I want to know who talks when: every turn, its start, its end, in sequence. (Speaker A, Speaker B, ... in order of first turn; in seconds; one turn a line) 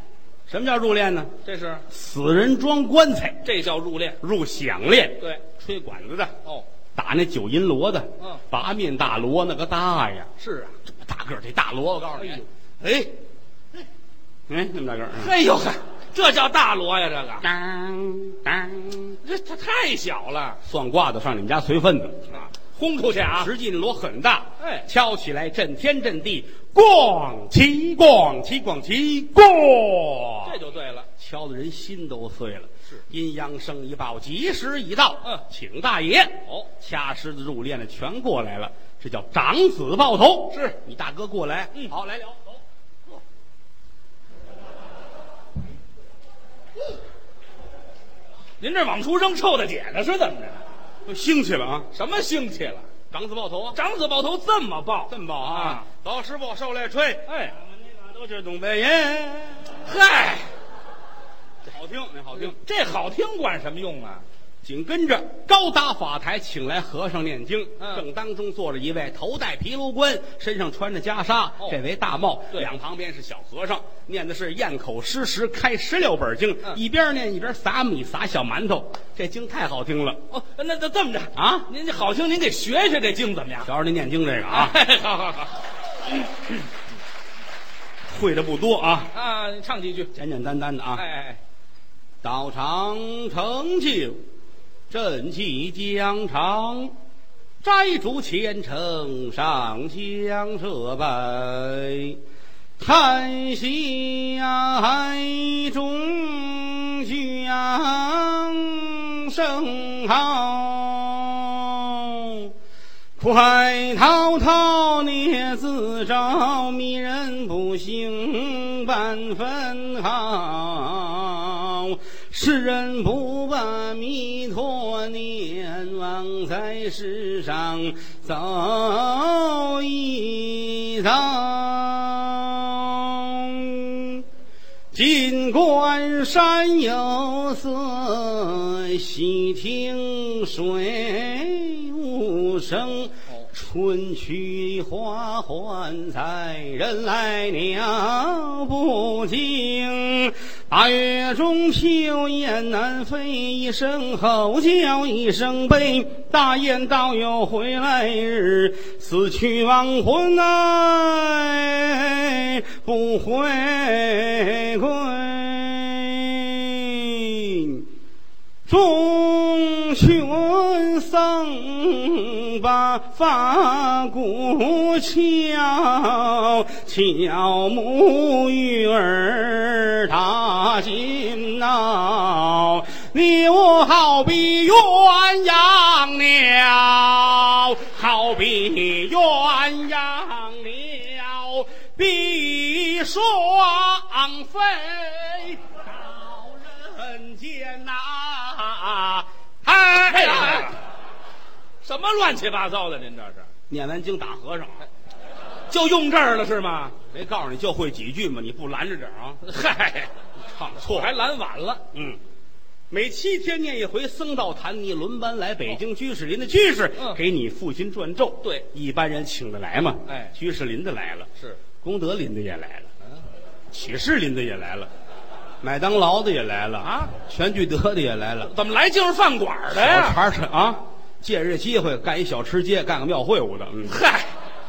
Speaker A: 0.5-1.3
Speaker B: 1.4-1.8
Speaker A: 1.9-3.4
Speaker B: 3.4-4.2
Speaker A: 4.2-6.3
Speaker A: 6.9-10.3
Speaker B: 10.4-10.7
Speaker A: 10.8-12.4
Speaker B: 12.2-13.1
Speaker A: 14.5-15.3
Speaker B: 15.2-17.5
Speaker A: 17.4-19.2
Speaker B: 19.2-20.6
Speaker A: 20.6-22.4
Speaker B: 22.3-23.5
Speaker A: 23.3-30.6
Speaker B: 24.6-24.9
Speaker B: 30.4-31.1
Speaker A: 31.2-42.6
Speaker B: 40.5-40.8
Speaker B: 48.6-50.6
Speaker A: 51.0-51.9
Speaker B: 51.9-52.9
Speaker A: 53.1-53.8
Speaker B: 53.7-55.9
Speaker A: 55.1-59.8
Speaker B: 57.3-57.5
Speaker B: 59.8-60.5
Speaker A: 61.6-62.6
Speaker B: 62.3-64.2
Speaker A: 64.6-80.2
Speaker B: 67.8-68.0
Speaker B: 80.3-83.7
Speaker A: 81.3-81.7
Speaker A: 83.6-84.8
Speaker B: 84.5-85.6
Speaker A: 88.1-89.1
Speaker B: 89.1-90.1
Speaker A: 90.1-91.0
Speaker B: 90.9-91.4
Speaker A: 92.2-94.2
Speaker A: 94.9-96.9
Speaker A: 97.6-102.2
Speaker A: 102.8-112.5
Speaker A: 113.2-134.2
Speaker A: 134.9-167.8
Speaker A: 168.7-200.7
Speaker B: 200.0-200.8
Speaker B: 201.8-203.5
Speaker A: 203.7-204.8
Speaker B: 205.7-207.0
Speaker A: 207.1-209.4
Speaker B: 209.4-210.1
Speaker A: 210.5-211.1
Speaker B: 210.8-211.8
Speaker A: 211.9-212.2
Speaker A: 212.9-221.3
Speaker B: 220.1-220.3
Speaker A: 221.8-222.9
Speaker A: 223.7-224.9
Speaker A: 225.6-228.5
Speaker B: 226.8-227.1
Speaker B: 228.4-230.2
Speaker A: 229.7-234.0
Speaker B: 233.9-234.3